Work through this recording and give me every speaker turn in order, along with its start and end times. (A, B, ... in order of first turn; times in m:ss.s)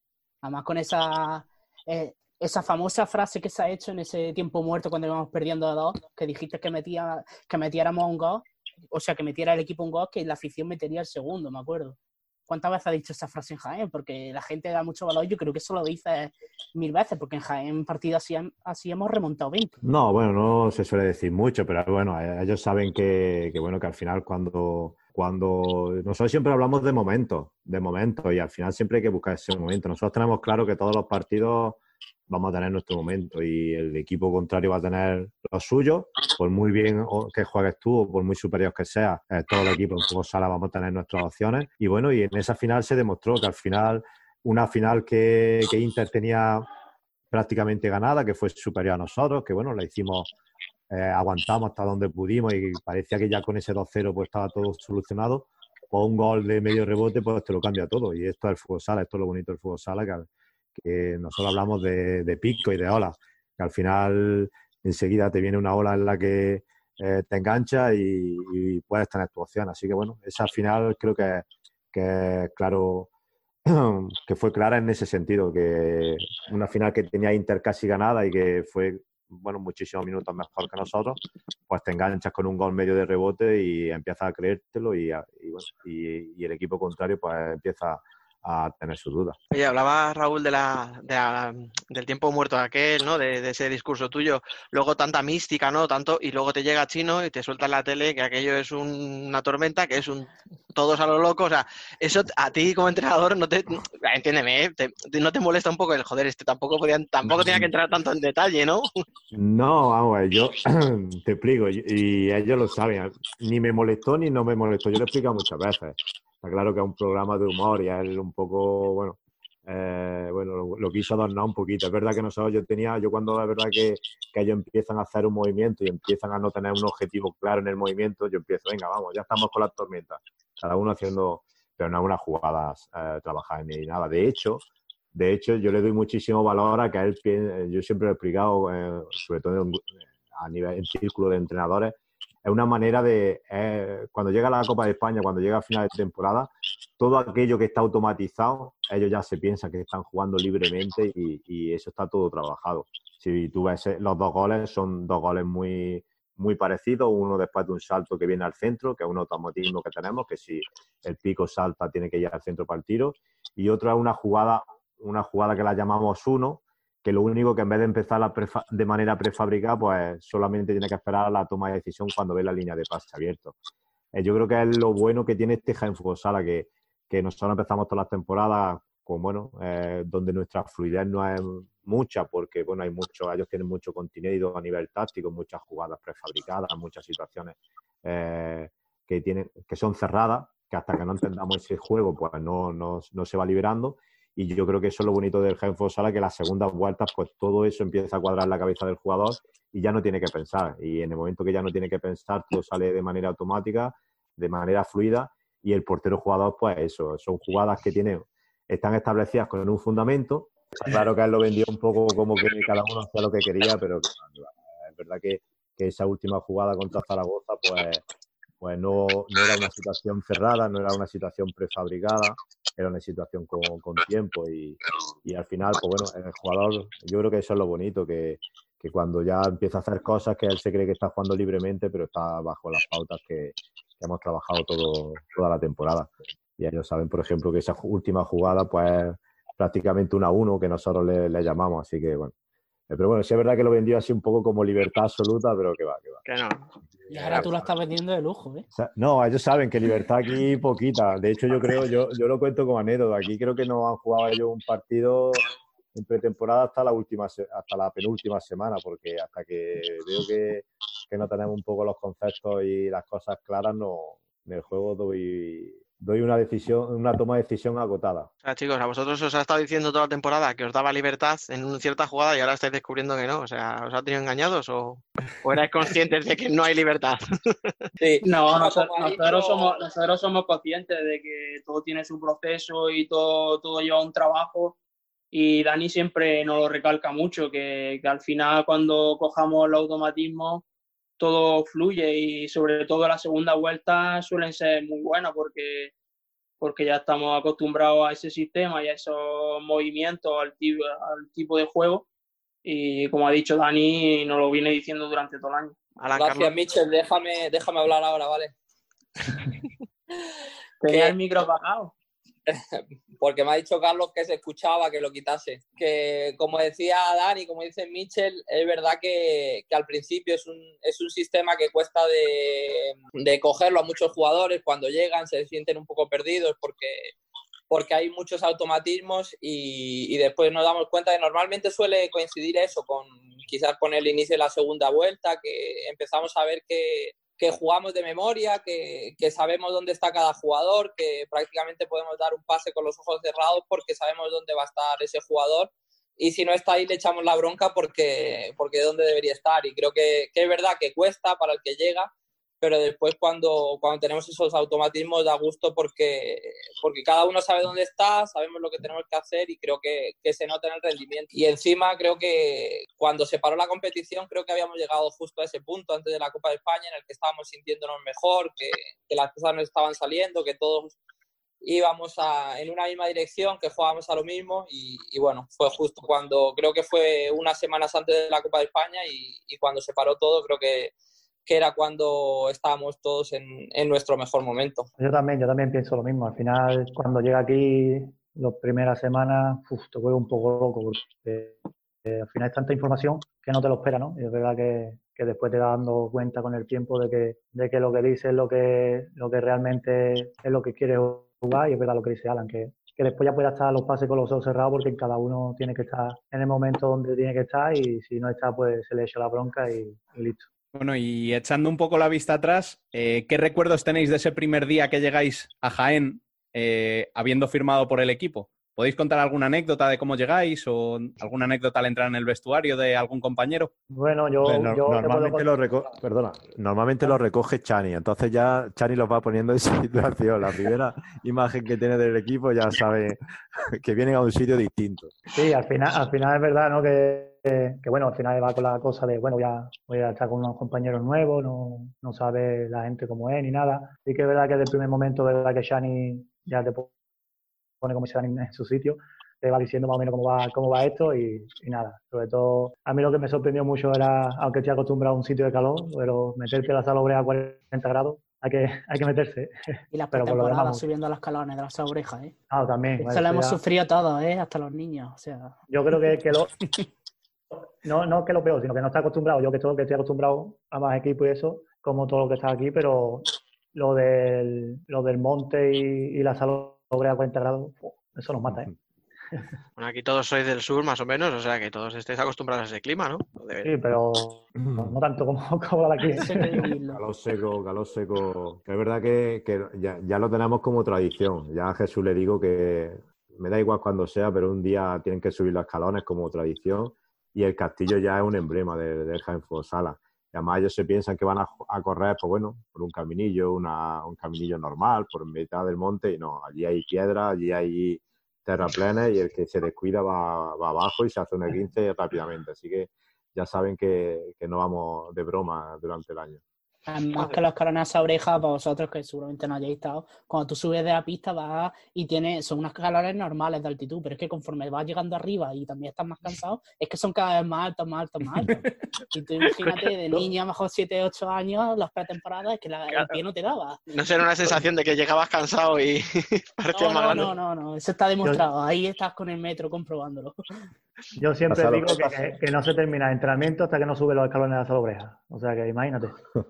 0:00.4-0:19.8 A
0:19.8-0:46.7 B
0:47.3-0:50.3 B
0:50.9-1:13.1 B
1:13.7-1:29.4 B
1:29.5-1:48.9 C
1:47.2-1:47.7 B
1:49.3-2:14.6 B
2:15.1-2:53.6 B
2:54.1-3:38.0 B
3:38.6-4:02.3 B
4:02.9-4:06.2 B
4:06.2-4:06.7 C
4:07.0-4:07.5 B
4:07.1-4:08.6 A
4:07.2-4:07.5 C
4:08.7-4:15.4 B
4:15.9-4:28.3 B
4:28.4-4:37.7 C
4:38.0-4:39.8 D
4:38.2-4:44.8 E
4:45.3-4:50.6 E
4:51.2-4:55.9 E
4:56.6-5:02.0 E
5:02.6-5:05.8 E
5:06.0-5:06.5 C
5:06.2-5:08.5 D
5:10.8-5:11.9 E
5:10.9-5:11.1 D
5:12.5-5:27.1 D
5:27.7-6:10.9 D
6:11.6-6:20.9 D
6:21.4-6:24.9 D
6:25.0-6:50.5 F
6:50.7-7:03.7 G
7:03.9-7:05.5 F
7:04.4-7:13.2 B
7:13.8-7:15.1 B
7:15.3-7:26.9 F
7:27.8-7:40.8 F
7:39.9-7:42.3 A
7:42.5-7:43.6 F
7:43.0-7:45.6 A
7:45.7-7:46.5 F
7:47.8-7:58.7 F
7:59.8-8:03.7 C
8:03.6-8:06.7 F
8:04.5-8:05.0 B
8:06.0-8:07.0 A
8:06.9-8:36.4 B
8:36.9-8:53.8 A
8:49.4-8:50.3 C
8:52.9-8:53.1 C
8:53.9-8:57.3 C
8:56.7-9:00.4 A
9:01.2-9:06.2 F
9:01.5-9:02.3 B